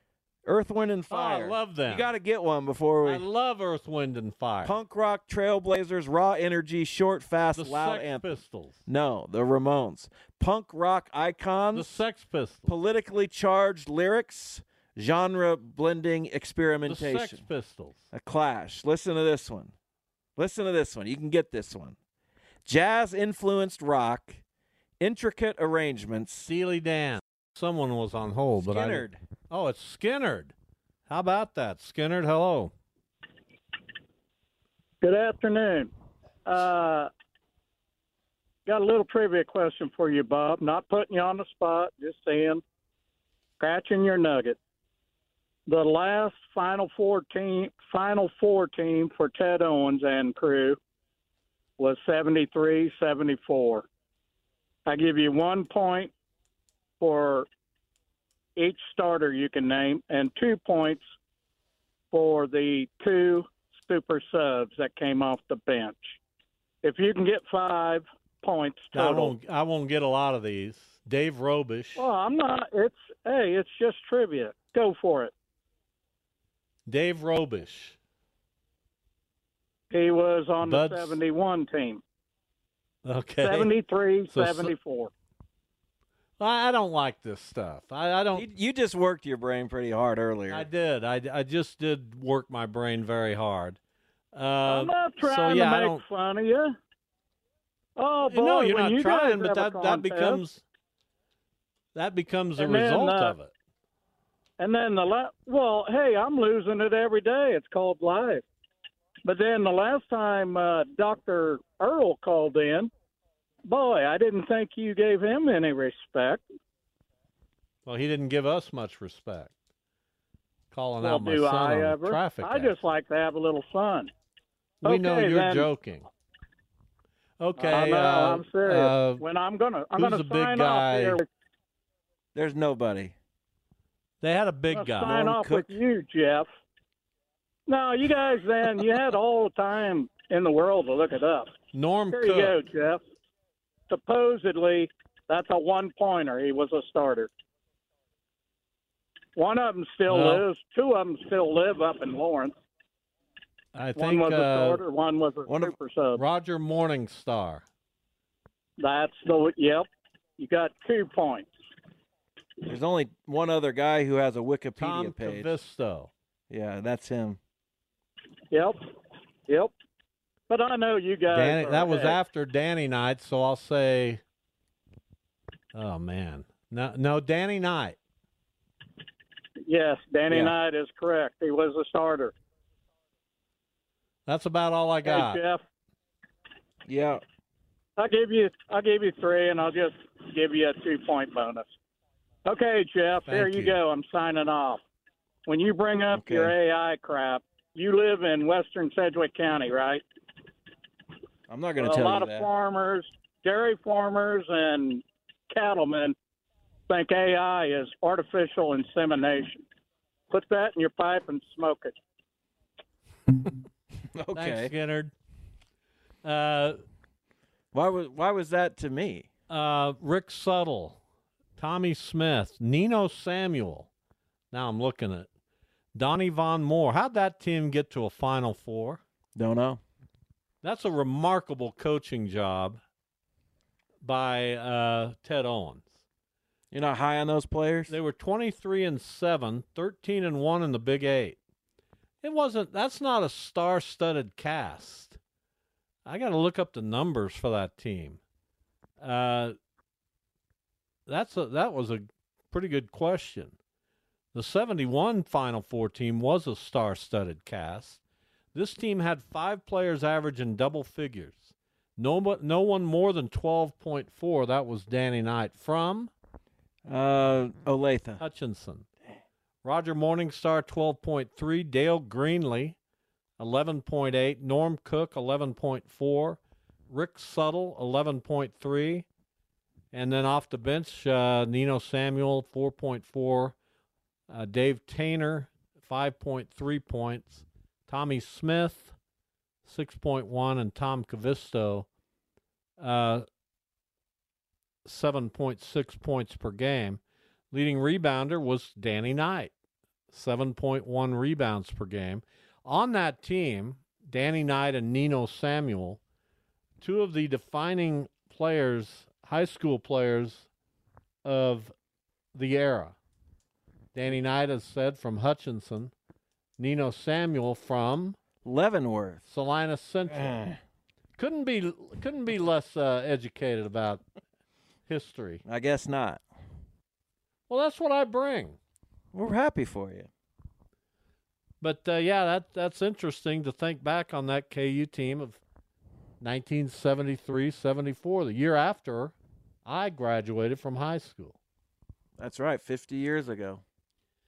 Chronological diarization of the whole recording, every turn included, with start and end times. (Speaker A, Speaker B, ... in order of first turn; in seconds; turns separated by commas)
Speaker A: 0.5-3.2, Speaker B: 1.1-2.1, Speaker B: 3.0-4.8, Speaker A: 4.6-8.3, Speaker B: 7.6-8.8, Speaker A: 8.9-11.9, Speaker B: 11.7-12.7, Speaker A: 12.7-17.4, Speaker B: 16.9-18.0, Speaker A: 18.1-19.7, Speaker A: 20.4-22.0, Speaker A: 22.7-24.4, Speaker A: 25.0-26.5, Speaker B: 26.4-30.5, Speaker A: 28.6-29.2, Speaker B: 31.1-32.7, Speaker C: 35.0-35.9, Speaker C: 36.5-37.1, Speaker C: 38.7-42.6, Speaker C: 43.6-44.6, Speaker C: 45.7-50.8, Speaker C: 51.8-53.9, Speaker C: 54.9-56.1, Speaker C: 57.0-57.5, Speaker C: 58.6-61.0, Speaker C: 62.1-66.2, Speaker C: 66.8-69.4, Speaker B: 68.9-72.1, Speaker C: 72.0-75.3, Speaker B: 76.9-78.0, Speaker C: 79.9-82.0, Speaker B: 80.6-81.2, Speaker B: 83.0-83.7, Speaker C: 83.4-85.1, Speaker B: 84.3-84.7, Speaker B: 86.4-88.5, Speaker A: 88.3-90.7, Speaker B: 90.5-93.8, Speaker B: 94.3-96.0, Speaker C: 94.7-96.7, Speaker C: 98.0-100.4, Speaker B: 98.3-100.6, Speaker B: 102.0-103.5, Speaker C: 102.6-103.4, Speaker C: 104.6-108.5, Speaker C: 109.2-112.9, Speaker C: 113.7-116.5, Speaker B: 117.9-119.5, Speaker B: 120.7-122.8, Speaker C: 121.0-124.1, Speaker B: 124.8-126.1, Speaker C: 124.8-125.7, Speaker B: 127.4-129.2, Speaker C: 127.6-131.3, Speaker B: 129.9-131.2, Speaker A: 132.3-133.1, Speaker B: 134.2-135.2, Speaker C: 134.7-136.5, Speaker A: 135.0-135.8, Speaker C: 137.7-141.6, Speaker B: 141.7-142.6, Speaker C: 142.1-143.0, Speaker C: 143.9-147.3, Speaker C: 149.4-152.6, Speaker B: 150.1-150.4, Speaker B: 153.7-154.8, Speaker C: 154.0-156.2, Speaker A: 155.5-155.8, Speaker B: 156.2-157.6, Speaker C: 158.8-159.9, Speaker C: 160.4-161.5, Speaker A: 162.7-165.6, Speaker B: 164.8-166.1, Speaker A: 166.5-167.4, Speaker C: 168.5-168.8, Speaker C: 169.5-169.7, Speaker C: 170.5-172.2, Speaker B: 171.3-174.2, Speaker B: 175.7-178.0, Speaker C: 179.7-182.3, Speaker A: 180.3-180.6, Speaker B: 184.3-185.4, Speaker C: 185.0-185.6, Speaker A: 186.9-187.2, Speaker C: 188.0-191.7, Speaker C: 192.4-194.8, Speaker B: 193.3-193.8, Speaker C: 195.5-200.0, Speaker A: 196.1-196.6, Speaker A: 201.5-202.5, Speaker C: 201.8-206.2, Speaker C: 206.9-209.6, Speaker C: 210.3-212.0, Speaker A: 214.1-214.7, Speaker B: 214.3-215.1, Speaker B: 216.2-216.8, Speaker A: 217.7-219.3, Speaker B: 219.5-221.0, Speaker B: 221.6-223.9, Speaker B: 224.5-225.3, Speaker B: 225.9-229.0, Speaker A: 229.4-229.8, Speaker B: 230.6-232.8, Speaker B: 234.0-235.9, Speaker A: 236.7-237.9, Speaker B: 237.9-241.4, Speaker B: 242.2-245.2, Speaker B: 246.1-248.2, Speaker B: 249.0-249.6, Speaker B: 251.1-253.6, Speaker B: 254.3-258.0, Speaker B: 258.5-266.1, Speaker A: 266.9-268.2, Speaker B: 268.2-268.9, Speaker B: 269.6-272.8, Speaker B: 273.4-276.4, Speaker B: 276.9-279.1, Speaker B: 279.9-283.6, Speaker B: 284.3-288.9, Speaker B: 289.6-291.9, Speaker B: 292.8-293.2, Speaker B: 294.9-297.0, Speaker B: 297.5-299.5, Speaker B: 300.1-306.0, Speaker B: 306.8-310.5, Speaker B: 311.2-311.7, Speaker B: 312.4-313.0, Speaker B: 313.9-315.9, Speaker B: 316.6-318.2, Speaker A: 318.4-319.2, Speaker B: 319.3-320.4, Speaker A: 320.1-320.6, Speaker B: 321.2-324.0, Speaker B: 324.9-325.4, Speaker A: 325.4-326.2, Speaker B: 327.5-328.6, Speaker A: 329.1-330.1, Speaker B: 331.6-335.4, Speaker B: 336.2-341.4, Speaker A: 342.2-343.6